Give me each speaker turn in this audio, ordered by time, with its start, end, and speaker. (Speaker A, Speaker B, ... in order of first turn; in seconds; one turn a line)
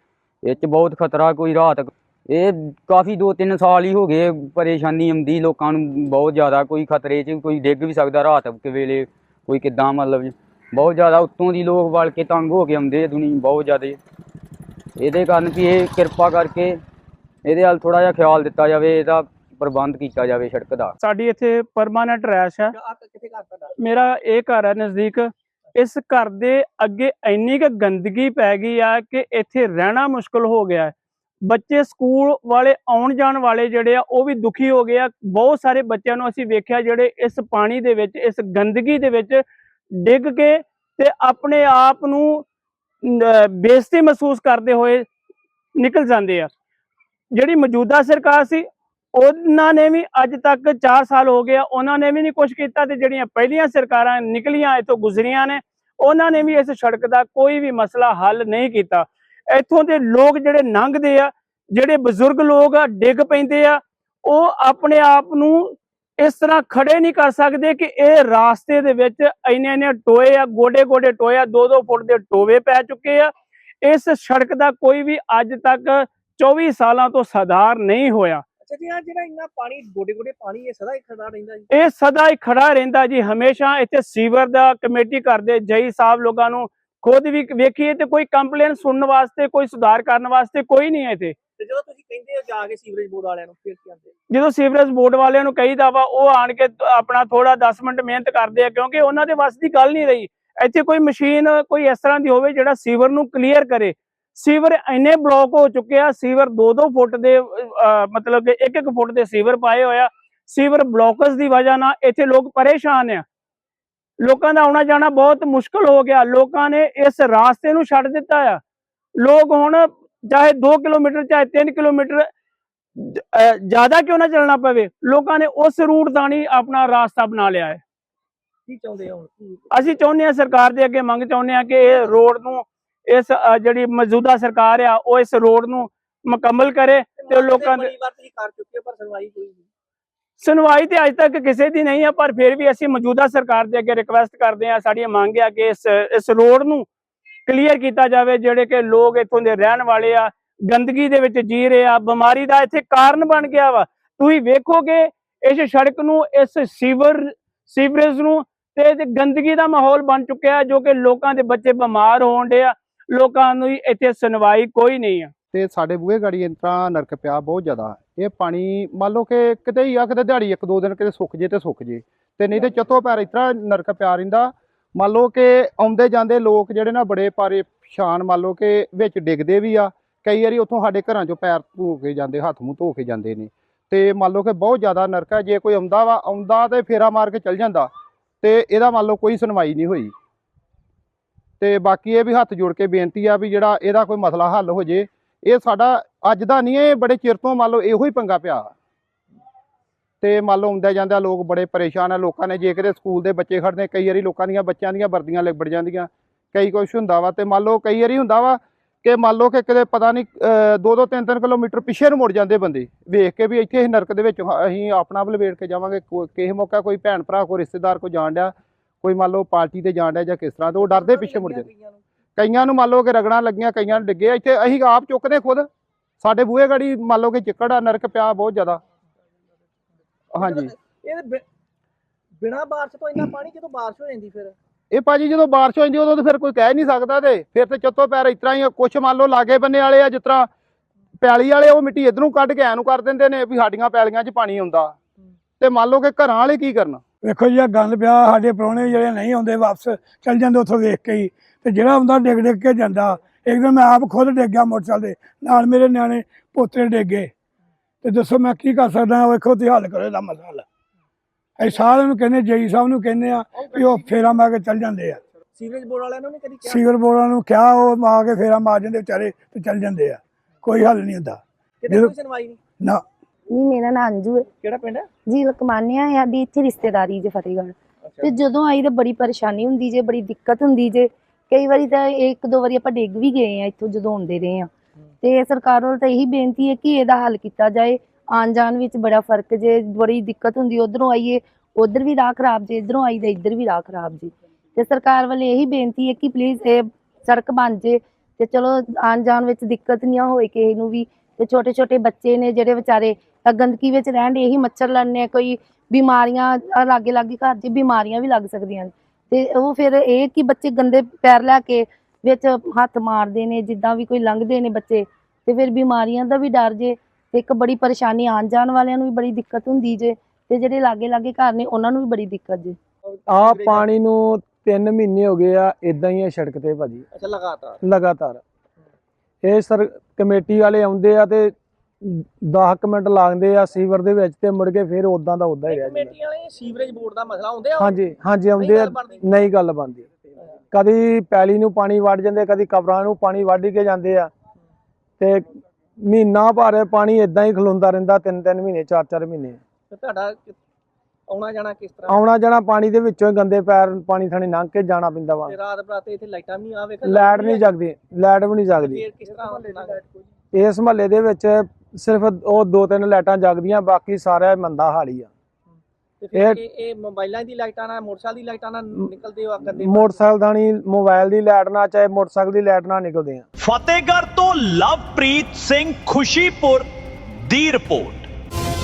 Speaker A: 0.4-14.0
Speaker A: 15.0-16.8
Speaker A: 17.4-20.9
Speaker B: 21.0-22.7
Speaker B: 23.8-30.9
Speaker B: 31.5-39.4
Speaker B: 40.0-42.5
Speaker B: 43.0-45.1
Speaker B: 45.8-46.5
Speaker B: 47.3-73.3
Speaker B: 73.8-78.4
Speaker C: 78.7-81.7
Speaker B: 81.7-91.4
Speaker C: 91.6-94.1
Speaker B: 94.3-113.2
Speaker B: 114.2-118.6
Speaker B: 119.2-122.3
Speaker B: 123.0-127.8
Speaker C: 128.7-129.5
Speaker B: 129.7-137.9
Speaker C: 137.3-139.6
Speaker B: 140.4-146.9
Speaker B: 147.5-165.3
Speaker D: 165.5-187.9
Speaker D: 188.4-190.1
Speaker D: 191.6-198.7
Speaker D: 200.2-221.7
Speaker C: 220.9-222.0
Speaker D: 222.4-225.7
Speaker D: 226.2-228.8
Speaker D: 230.3-230.7
Speaker C: 230.4-231.4
Speaker C: 232.4-234.5
Speaker D: 234.9-240.5
Speaker D: 241.2-244.9
Speaker D: 245.6-247.0
Speaker E: 247.2-257.3
Speaker E: 258.0-260.6
Speaker E: 261.6-265.2
Speaker C: 265.6-266.7
Speaker E: 266.6-272.1
Speaker C: 271.9-272.6
Speaker F: 273.5-274.5
Speaker C: 274.6-275.1
Speaker F: 275.3-284.7
Speaker F: 285.2-322.8
Speaker G: 323.3-327.1
Speaker C: 323.4-323.8
Speaker C: 327.1-327.8
Speaker G: 327.8-328.4
Speaker G: 329.4-336.1
Speaker C: 335.7-337.9
Speaker G: 337.8-340.1
Speaker C: 338.6-339.2
Speaker G: 340.7-344.3
Speaker G: 345.2-345.5
Speaker G: 346.0-349.6
Speaker C: 349.9-350.5
Speaker C: 351.3-352.1
Speaker G: 352.1-355.6
Speaker C: 355.5-357.7
Speaker G: 357.1-359.1
Speaker C: 358.9-360.0
Speaker G: 360.5-365.3
Speaker C: 366.2-370.2
Speaker G: 366.3-366.6
Speaker G: 369.8-373.4
Speaker H: 373.6-376.9
Speaker H: 377.5-378.3